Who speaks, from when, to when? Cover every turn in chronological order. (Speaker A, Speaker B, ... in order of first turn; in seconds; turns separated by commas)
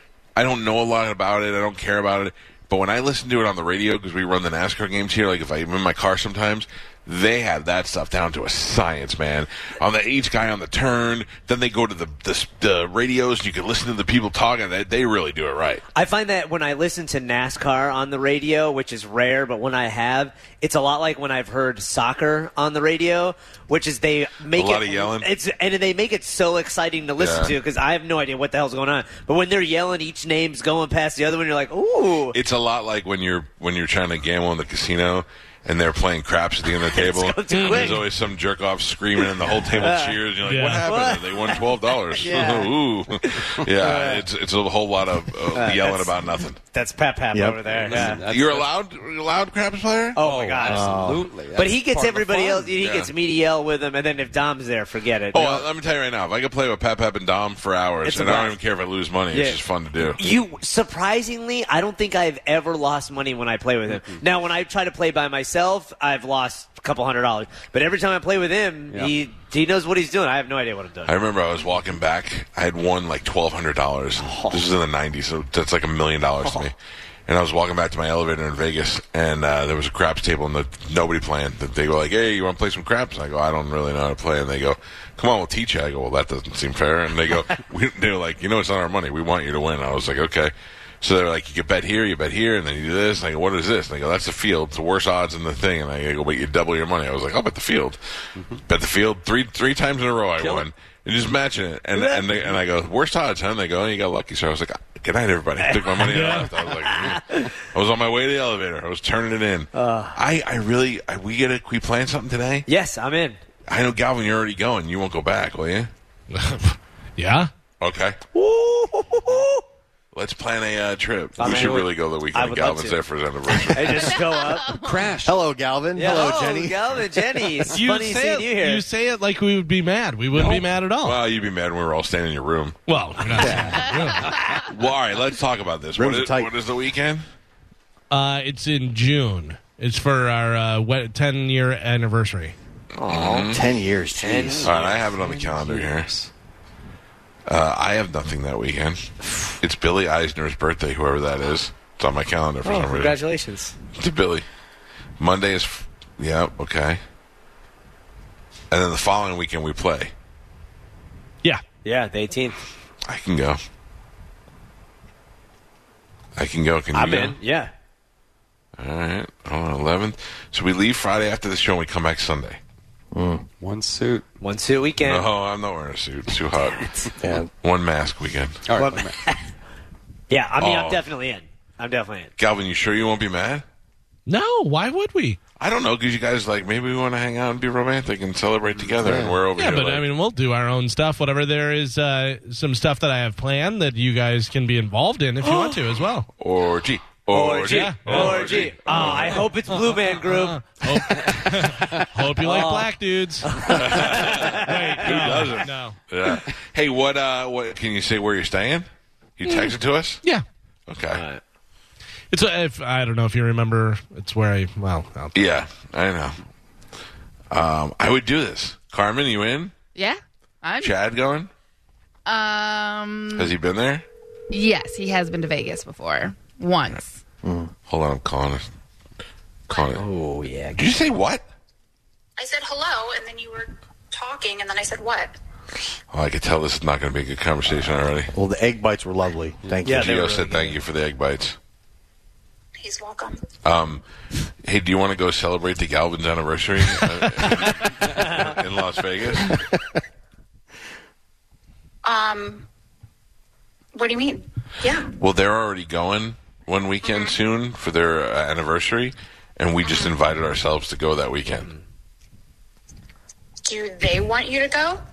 Speaker A: 0.3-15.8, Speaker B: 15.9-32.4, Speaker A: 24.5-25.3, Speaker A: 27.2-27.6, Speaker A: 32.3-46.6, Speaker B: 36.7-38.0, Speaker C: 37.5-38.0, Speaker B: 39.2-40.2, Speaker C: 40.4-40.9, Speaker B: 40.8-41.6, Speaker B: 42.2-44.2, Speaker B: 45.5-46.1, Speaker B: 46.7-48.2, Speaker D: 47.3-47.6, Speaker E: 47.6-48.7, Speaker A: 48.1-50.2, Speaker B: 50.1-50.9, Speaker E: 50.2-52.8, Speaker D: 50.6-51.2, Speaker B: 51.5-55.7, Speaker A: 52.8-53.1, Speaker A: 55.3-60.2, Speaker B: 58.0-58.5, Speaker B: 59.3-71.2, Speaker E: 68.9-69.2, Speaker A: 71.0-76.8, Speaker A: 77.3-98.0, Speaker A: 98.7-112.7, Speaker E: 100.4-100.7, Speaker B: 101.9-102.3, Speaker B: 105.6-107.5, Speaker C: 106.0-106.5, Speaker B: 109.7-110.2, Speaker B: 112.7-113.4, Speaker A: 113.7-115.9, Speaker C: 116.3-117.5, Speaker A: 117.8-118.2, Speaker B: 118.3-119.5, Speaker A: 120.1-124.2, Speaker B: 121.4-123.0, Speaker B: 123.7-124.8, Speaker F: 124.6-125.0, Speaker E: 124.7-125.5, Speaker D: 125.2-126.9, Speaker B: 125.9-128.8, Speaker C: 127.7-131.2, Speaker E: 130.4-130.7, Speaker A: 131.0-132.8, Speaker C: 132.9-134.3, Speaker A: 133.3-133.6, Speaker B: 133.3-133.7, Speaker D: 133.4-133.9, Speaker A: 134.5-137.2, Speaker D: 135.9-136.5, Speaker C: 138.1-142.5, Speaker B: 143.0-143.5, Speaker A: 143.0-143.6, Speaker D: 143.5-144.7, Speaker B: 144.2-145.7, Speaker A: 144.6-146.1, Speaker A: 147.4-149.1, Speaker A: 149.6-153.2, Speaker B: 152.6-153.7, Speaker A: 154.0-154.4, Speaker A: 155.2-157.0, Speaker A: 158.7-160.1, Speaker B: 161.8-162.6, Speaker A: 163.0-163.6, Speaker A: 166.3-167.4, Speaker B: 166.9-167.7, Speaker A: 168.8-172.6, Speaker D: 173.1-173.4, Speaker E: 173.6-174.2, Speaker B: 174.4-175.3, Speaker A: 175.0-176.8, Speaker B: 176.6-177.2, Speaker D: 177.2-177.5, Speaker A: 177.6-178.6, Speaker E: 178.7-179.1, Speaker B: 178.8-179.5, Speaker B: 180.3-182.3, Speaker A: 180.6-181.1, Speaker A: 182.4-183.6, Speaker C: 184.3-185.4, Speaker A: 185.6-190.0, Speaker D: 189.0-189.4, Speaker C: 189.5-196.3, Speaker A: 196.4-199.4, Speaker B: 197.3-201.5, Speaker C: 197.7-203.5, Speaker B: 202.4-205.4, Speaker A: 203.7-208.9, Speaker C: 204.5-206.0, Speaker A: 209.4-210.2, Speaker A: 210.9-211.2, Speaker B: 211.1-211.4, Speaker C: 212.3-215.3, Speaker A: 215.3-216.4, Speaker A: 217.5-219.7, Speaker F: 219.9-220.9, Speaker A: 220.8-221.5, Speaker F: 222.2-223.5, Speaker A: 223.3-224.0, Speaker F: 224.5-227.1, Speaker D: 227.4-227.7, Speaker A: 227.9-228.6, Speaker A: 229.7-230.0, Speaker B: 230.0-230.8, Speaker A: 230.7-231.4, Speaker G: 232.4-235.3, Speaker A: 236.1-238.3, Speaker D: 238.3-240.1, Speaker B: 239.8-240.8, Speaker A: 239.9-241.6, Speaker G: 242.8-243.4, Speaker A: 243.6-244.0, Speaker A: 244.6-249.6, Speaker B: 248.1-248.5, Speaker G: 252.0-252.7, Speaker G: 253.9-255.1, Speaker A: 255.1-261.7, Speaker G: 257.0-257.4, Speaker G: 259.8-260.1, Speaker B: 261.5-261.8, Speaker G: 263.6-265.0